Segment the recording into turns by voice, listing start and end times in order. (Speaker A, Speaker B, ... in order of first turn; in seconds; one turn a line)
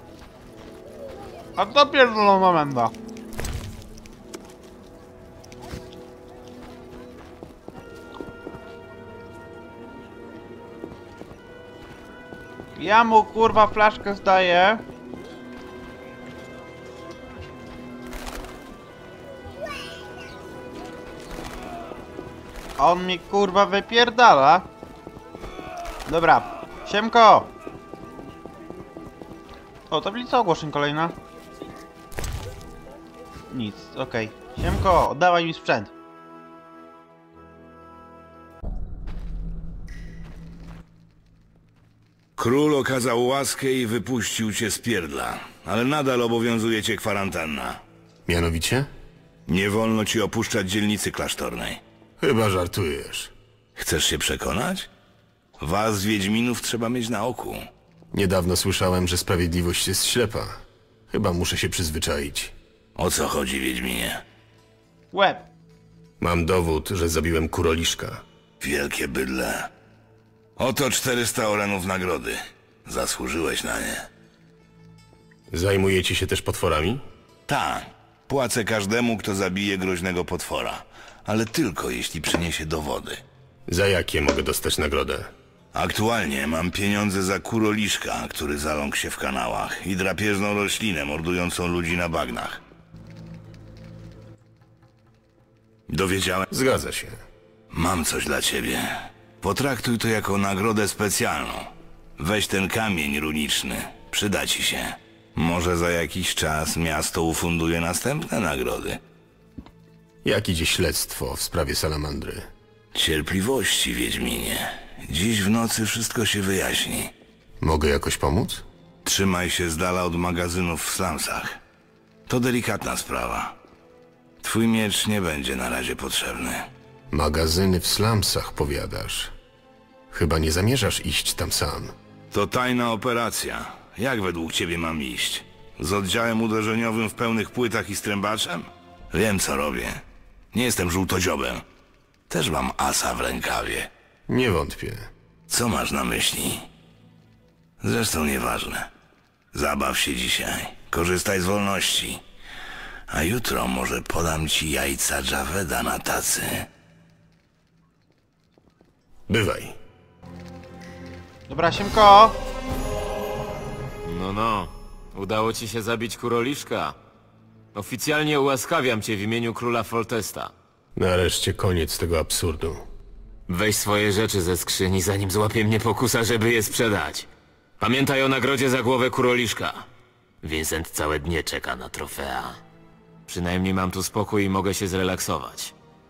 Speaker A: 1.6-2.9
Speaker A: 12.8-14.8
Speaker A: 22.8-24.7
Speaker A: 26.1-27.5
Speaker A: 29.9-31.1
Speaker A: 33.5-35.9
Speaker B: 42.4-47.8
Speaker C: 48.3-48.9
Speaker B: 49.5-51.8
Speaker C: 52.2-53.3
Speaker B: 53.8-54.9
Speaker B: 55.6-57.7
Speaker C: 58.1-62.5
Speaker B: 63.0-64.2
Speaker A: 65.1-65.5
Speaker C: 66.2-68.2
Speaker B: 68.6-69.7
Speaker B: 70.6-74.1
Speaker C: 75.5-77.0
Speaker B: 77.5-83.2
Speaker C: 83.7-85.3
Speaker B: 85.7-92.6
Speaker B: 95.9-96.5
Speaker C: 96.5-97.2
Speaker B: 97.7-109.0
Speaker C: 110.2-112.5
Speaker B: 113.0-117.1
Speaker C: 117.6-118.7
Speaker B: 119.0-121.6
Speaker B: 122.3-123.6
Speaker B: 124.4-126.7
Speaker C: 127.1-129.3
Speaker C: 130.1-131.9
Speaker B: 132.3-140.0
Speaker B: 140.5-141.7
Speaker B: 142.3-143.9
Speaker C: 144.3-145.1
Speaker B: 145.5-146.7
Speaker B: 147.8-148.9
Speaker B: 149.5-152.2
Speaker B: 153.1-156.7
Speaker C: 159.3-159.8
Speaker A: 161.5-162.4
Speaker D: 164.1-167.0
Speaker D: 167.7-170.5
Speaker C: 171.0-172.9
Speaker D: 173.5-177.3
Speaker D: 177.8-179.9
Speaker D: 180.4-182.6
Speaker D: 183.3-185.7